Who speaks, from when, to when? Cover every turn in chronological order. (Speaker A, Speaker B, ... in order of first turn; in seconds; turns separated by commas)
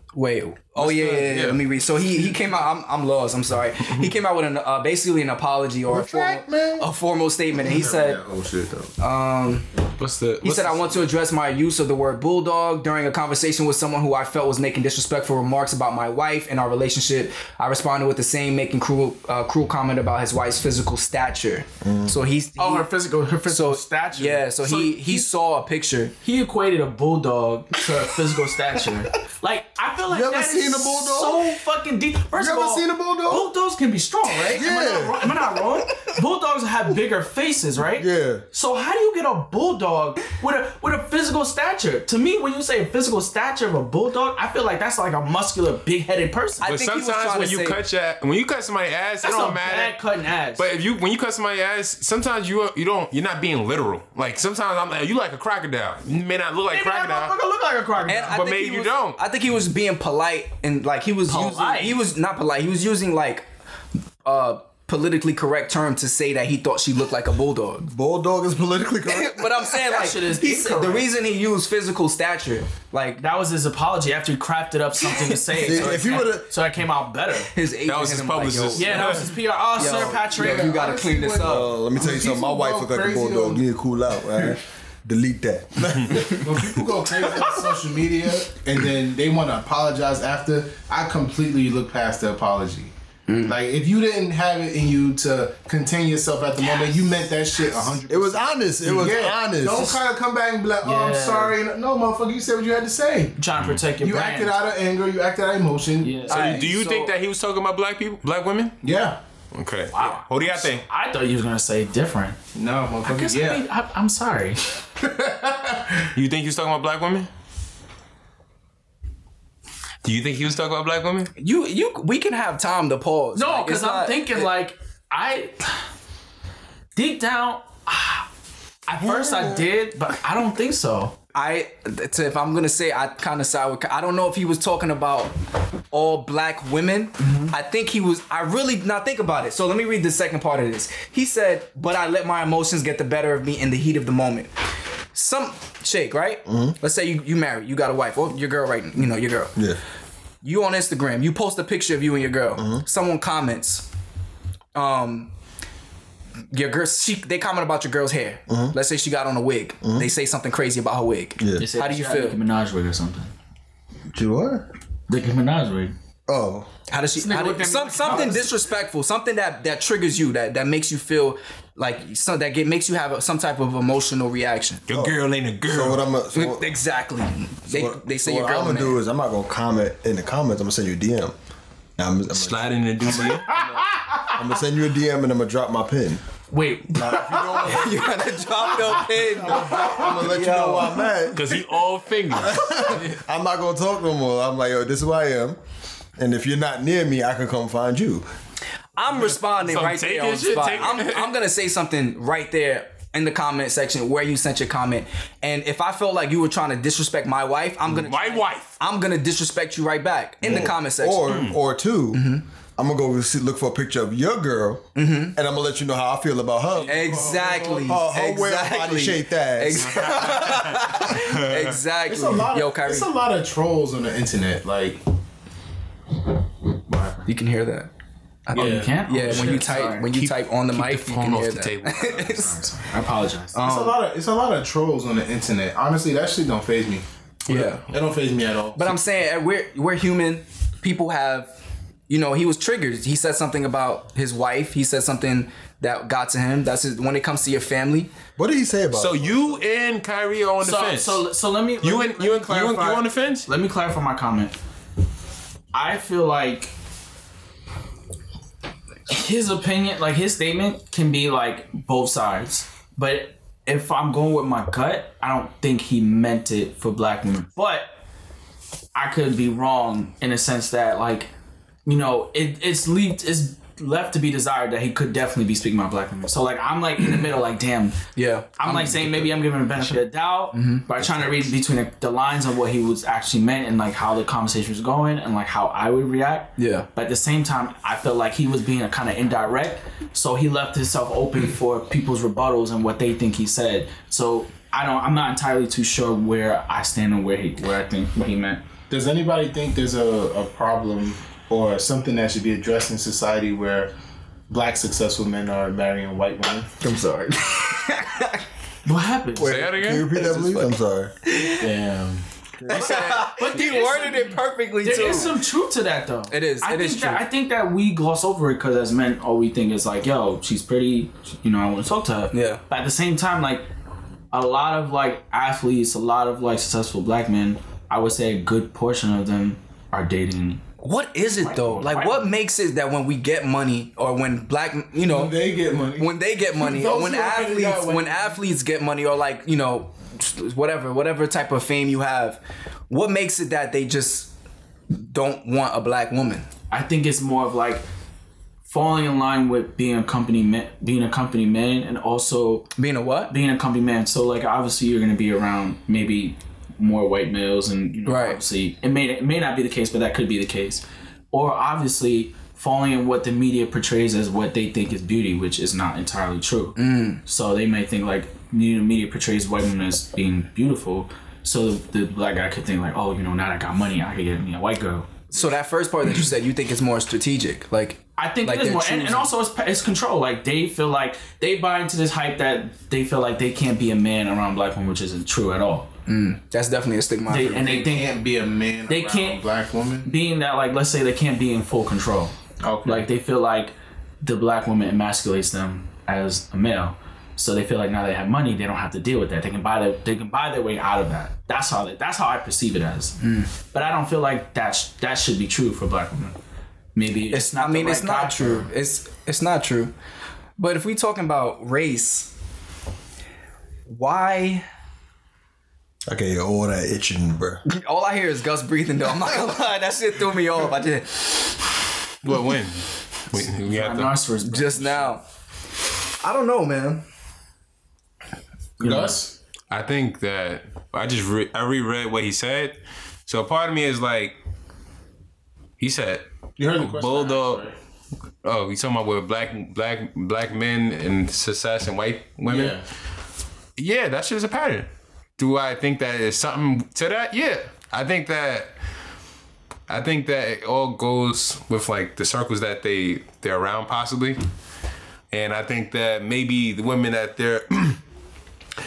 Speaker A: 0.1-8.2, Speaker B: 0.8-1.6, Speaker C: 5.9-6.9, Speaker D: 7.6-8.7, Speaker C: 7.8-8.9, Speaker A: 9.0-9.7, Speaker B: 10.0-11.0, Speaker A: 10.4-22.9, Speaker C: 21.8-22.2, Speaker E: 22.6-25.3, Speaker A: 23.4-26.1, Speaker E: 26.2-46.7, Speaker C: 30.1-31.6, Speaker C: 32.3-33.5, Speaker C: 34.4-35.7, Speaker C: 37.9-38.4, Speaker A: 46.6-47.8, Speaker B: 46.6-49.9, Speaker E: 49.2-50.6, Speaker B: 50.6-57.4, Speaker E: 56.7-58.4, Speaker A: 58.1-63.4, Speaker B: 58.2-59.2, Speaker E: 61.3-62.0, Speaker A: 64.2-67.8, Speaker C: 67.8-69.7, Speaker A: 69.1-73.2, Speaker E: 69.9-71.1, Speaker E: 73.2-77.5, Speaker C: 75.6-76.5, Speaker A: 77.5-79.2, Speaker B: 77.8-79.3, Speaker E: 78.8-80.8, Speaker A: 79.8-81.7, Speaker D: 79.9-83.6, Speaker C: 81.4-86.7, Speaker D: 86.3-92.9, Speaker A: 93.3-93.5, Speaker D: 93.5-103.3, Speaker C: 98.1-100.0, Speaker E: 100.8-101.6, Speaker E: 103.4-104.5, Speaker D: 104.0-106.7, Speaker E: 106.0-106.6, Speaker A: 106.3-107.1, Speaker B: 106.3-108.8, Speaker D: 108.8-109.2, Speaker B: 109.5-110.8, Speaker E: 109.9-112.4, Speaker D: 112.5-113.6, Speaker E: 113.0-114.6, Speaker D: 115.0-116.1, Speaker B: 116.1-117.3, Speaker B: 120.0-121.3, Speaker A: 121.4-124.5, Speaker E: 123.3-125.8, Speaker E: 126.9-128.2, Speaker E: 128.9-131.2, Speaker C: 129.0-129.7, Speaker A: 131.3-135.3, Speaker A: 135.9-144.5, Speaker E: 137.2-137.5, Speaker A: 145.1-149.5, Speaker C: 146.4-146.8, Speaker C: 149.5-149.8, Speaker A: 150.4-153.8, Speaker C: 152.6-152.8, Speaker A: 154.7-155.3, Speaker A: 156.5-162.4, Speaker C: 158.5-158.8, Speaker C: 159.8-160.1, Speaker C: 161.4-161.7, Speaker E: 161.6-163.3, Speaker C: 164.1-164.7, Speaker E: 165.1-165.9, Speaker C: 166.3-166.7, Speaker A: 166.9-174.8, Speaker E: 167.1-168.6, Speaker B: 174.9-176.0, Speaker C: 174.9-176.7, Speaker A: 176.3-179.0, Speaker C: 177.7-181.3, Speaker C: 182.0-183.2, Speaker B: 182.3-183.8, Speaker D: 183.3-184.2, Speaker C: 184.4-186.2, Speaker E: 186.5-187.7, Speaker C: 186.9-188.1, Speaker A: 187.6-191.0, Speaker C: 189.0-191.7, Speaker D: 189.7-190.1, Speaker B: 191.3-193.2, Speaker C: 192.3-195.6, Speaker C: 196.2-198.2, Speaker A: 199.0-211.4, Speaker B: 199.1-201.3, Speaker B: 207.9-208.7, Speaker C: 210.4-212.2, Speaker B: 210.4-210.7, Speaker B: 211.3-211.6, Speaker A: 212.1-212.4, Speaker C: 212.8-217.0, Speaker A: 214.9-215.3, Speaker D: 216.8-218.0, Speaker A: 216.8-223.1, Speaker C: 217.8-220.3, Speaker B: 219.8-221.8, Speaker D: 222.1-225.0, Speaker E: 226.9-227.2, Speaker A: 227.2-227.9, Speaker A: 228.4-232.6, Speaker D: 228.5-228.9, Speaker E: 228.5-230.1, Speaker B: 229.2-232.5, Speaker E: 232.2-233.6, Speaker A: 233.5-234.0, Speaker D: 233.6-237.0, Speaker A: 237.5-237.8, Speaker D: 237.6-238.9, Speaker A: 238.7-241.5, Speaker A: 242.1-248.1, Speaker C: 248.4-249.6, Speaker B: 248.9-251.2, Speaker E: 250.6-254.5, Speaker B: 251.8-253.5, Speaker E: 255.7-256.7, Speaker E: 259.1-267.9, Speaker E: 268.9-271.3, Speaker E: 271.9-278.0, Speaker A: 278.1-279.3, Speaker E: 278.6-298.6, Speaker A: 280.5-280.8, Speaker A: 286.6-286.9, Speaker D: 298.9-303.9, Speaker D: 304.5-306.7, Speaker A: 306.8-308.4, Speaker E: 308.8-309.6, Speaker C: 309.4-311.1, Speaker B: 309.4-310.1, Speaker A: 310.2-310.7, Speaker A: 311.2-311.7, Speaker D: 311.6-312.2, Speaker C: 312.6-313.3, Speaker A: 312.7-315.4, Speaker E: 313.3-323.6, Speaker A: 316.3-317.2, Speaker A: 322.3-322.6, Speaker E: 324.3-330.6, Speaker A: 330.8-335.3, Speaker E: 331.2-332.4, Speaker D: 335.0-338.4, Speaker A: 336.0-344.3, Speaker A: 344.9-346.5, Speaker E: 346.7-347.8, Speaker E: 348.6-352.7, Speaker A: 352.8-353.3, Speaker E: 353.3-375.6, Speaker A: 358.1-358.4, Speaker A: 366.8-367.2, Speaker A: 375.3-379.3, Speaker E: 378.2-385.9, Speaker A: 386.1-387.9, Speaker E: 387.3-388.2, Speaker D: 387.6-390.1, Speaker E: 388.9-389.4, Speaker E: 390.0-403.2, Speaker D: 392.6-393.1, Speaker A: 403.2-403.5, Speaker E: 403.7-406.4, Speaker E: 406.9-408.7, Speaker A: 407.3-409.9, Speaker A: 410.6-412.3, Speaker A: 413.9-414.6, Speaker C: 416.1-417.6, Speaker A: 417.6-421.4, Speaker B: 422.2-424.1, Speaker E: 423.4-425.1, Speaker A: 424.4-425.2, Speaker A: 426.2-427.0, Speaker D: 428.8-429.3, Speaker E: 428.8-429.1, Speaker B: 429.7-434.4, Speaker B: 435.8-437.6, Speaker D: 436.6-437.7, Speaker B: 438.4-442.8, Speaker D: 442.5-442.8, Speaker B: 443.8-448.7, Speaker B: 449.9-454.4, Speaker B: 455.3-458.0